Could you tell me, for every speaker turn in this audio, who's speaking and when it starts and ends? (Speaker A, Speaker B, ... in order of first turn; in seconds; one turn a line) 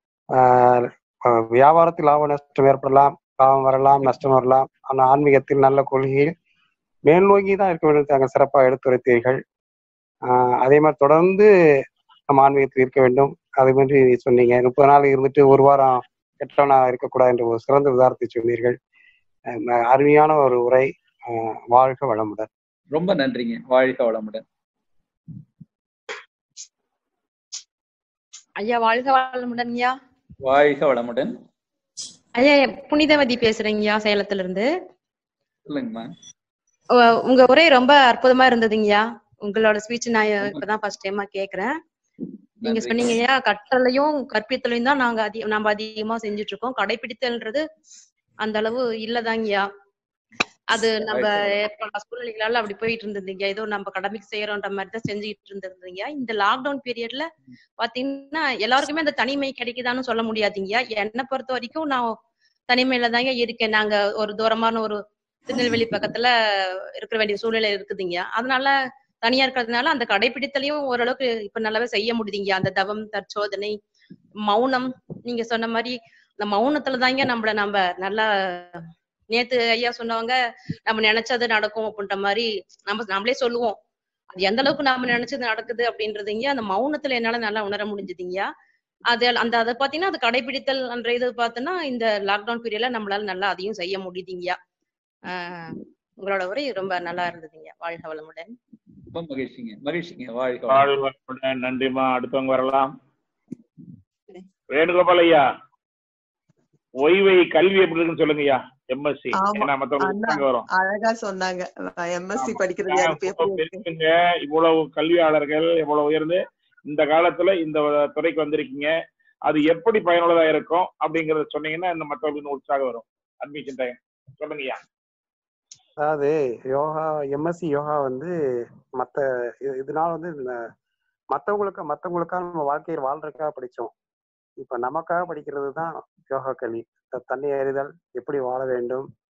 Speaker A: 0.4-6.3
Speaker A: 7.1-9.4
Speaker A: 10.3-11.5
Speaker A: 12.3-18.8
Speaker A: 19.6-22.5
Speaker B: 22.9-24.4
Speaker C: 28.6-29.9
Speaker B: 30.4-31.3
Speaker C: 32.4-34.7
Speaker B: 35.7-36.1
Speaker C: 37.0-41.7
Speaker B: 42.6-43.2
Speaker C: 42.6-47.6
Speaker C: 48.4-49.6
Speaker C: 50.7-57.3
Speaker B: 51.1-51.6
Speaker C: 57.8-62.1
Speaker C: 62.7-73.7
Speaker C: 74.4-80.3
Speaker C: 80.9-83.8
Speaker C: 84.3-88.5
Speaker C: 89.1-94.5
Speaker C: 95.3-98.5
Speaker B: 99.1-100.9
Speaker D: 100.7-102.9
Speaker D: 104.7-105.4
Speaker D: 107.0-110.7
Speaker E: 109.4-113.8
Speaker D: 112.4-118.9
Speaker D: 119.5-124.8
Speaker A: 126.0-128.3
Speaker A: 129.0-130.6
Speaker A: 131.3-133.9
Speaker A: 134.6-139.1